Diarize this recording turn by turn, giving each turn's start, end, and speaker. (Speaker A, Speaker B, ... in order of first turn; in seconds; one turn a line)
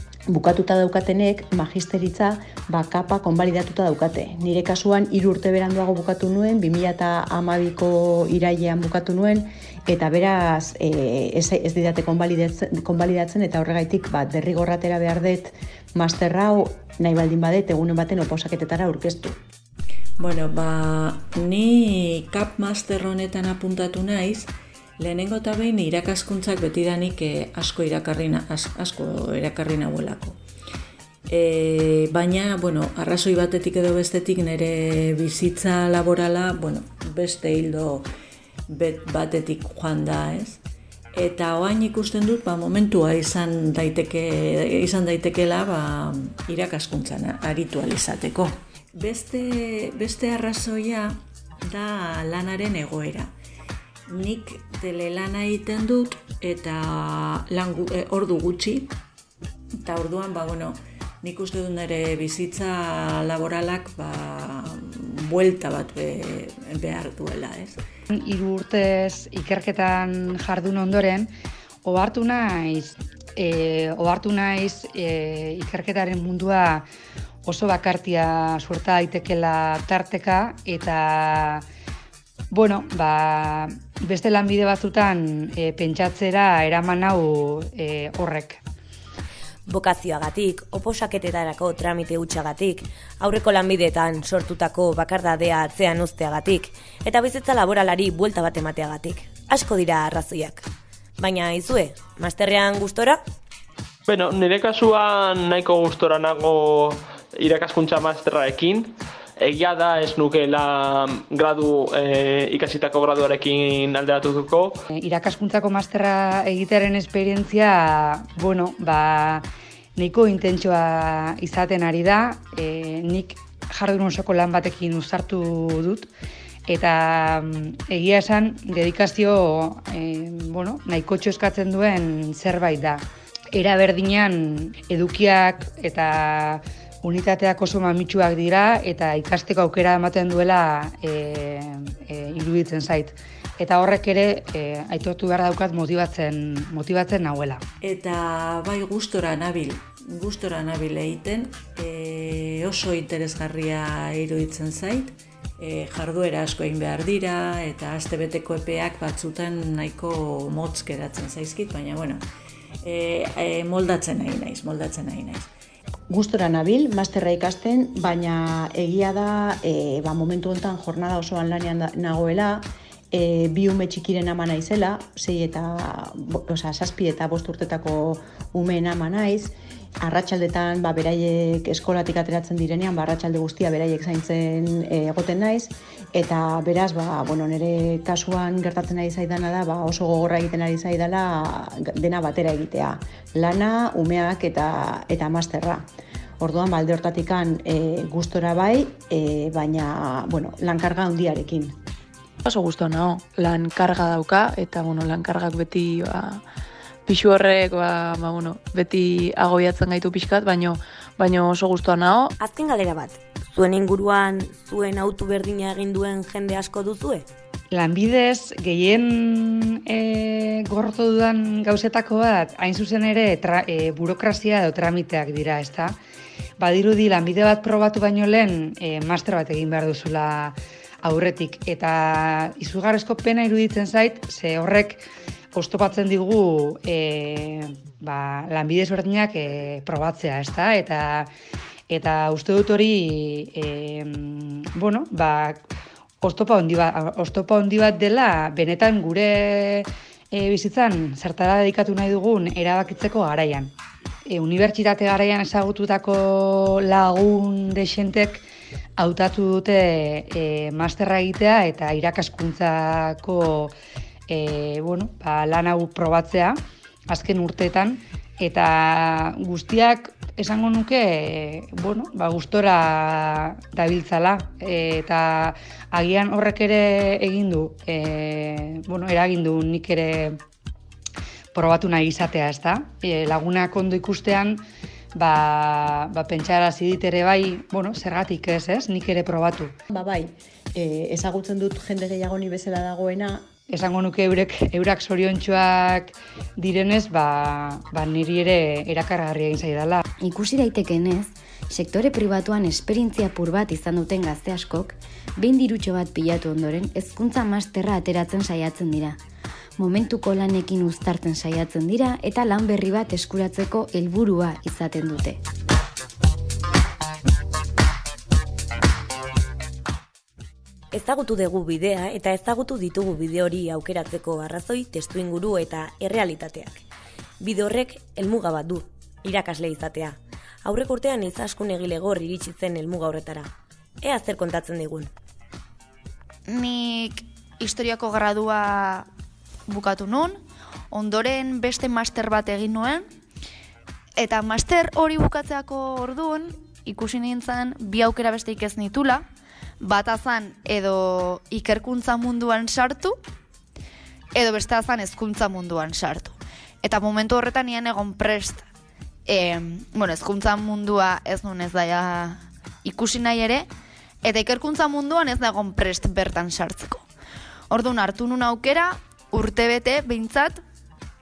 Speaker A: 0.3-19.4
Speaker B: 20.2-30.4
Speaker B: 31.3-38.1
Speaker B: 38.7-40.6
Speaker B: 41.1-53.3
Speaker B: 54.1-58.9
Speaker B: 59.7-67.8
Speaker C: 68.1-71.3
Speaker C: 71.8-76.8
Speaker C: 77.4-81.6
Speaker C: 82.5-88.6
Speaker D: 89.7-100.7
Speaker D: 101.2-103.2
Speaker E: 104.0-114.8
Speaker C: 114.9-126.1
Speaker C: 126.7-147.6
Speaker B: 147.8-162.2
Speaker B: 162.8-165.5
Speaker A: 166.1-195.8
Speaker A: 196.4-201.8
Speaker F: 202.4-206.4
Speaker F: 207.1-212.3
Speaker D: 212.4-217.3
Speaker C: 217.7-226.0
Speaker C: 226.6-241.3
Speaker C: 241.9-245.6
Speaker C: 246.2-253.7
Speaker C: 254.3-258.4
Speaker C: 259.0-263.7
Speaker C: 264.3-280.4
Speaker C: 281.5-284.6
Speaker C: 285.1-289.7
Speaker A: 289.9-293.5
Speaker C: 293.7-300.0
Speaker G: 300.2-309.2
Speaker G: 309.8-315.4
Speaker D: 320.9-326.8
Speaker D: 327.4-333.5
Speaker D: 334.0-335.1
Speaker H: 336.5-339.1
Speaker H: 339.7-340.4
Speaker H: 340.9-343.1
Speaker H: 344.1-349.2
Speaker H: 349.8-353.2
Speaker H: 354.3-358.6
Speaker H: 359.3-363.7
Speaker H: 364.2-367.0
Speaker H: 367.7-370.6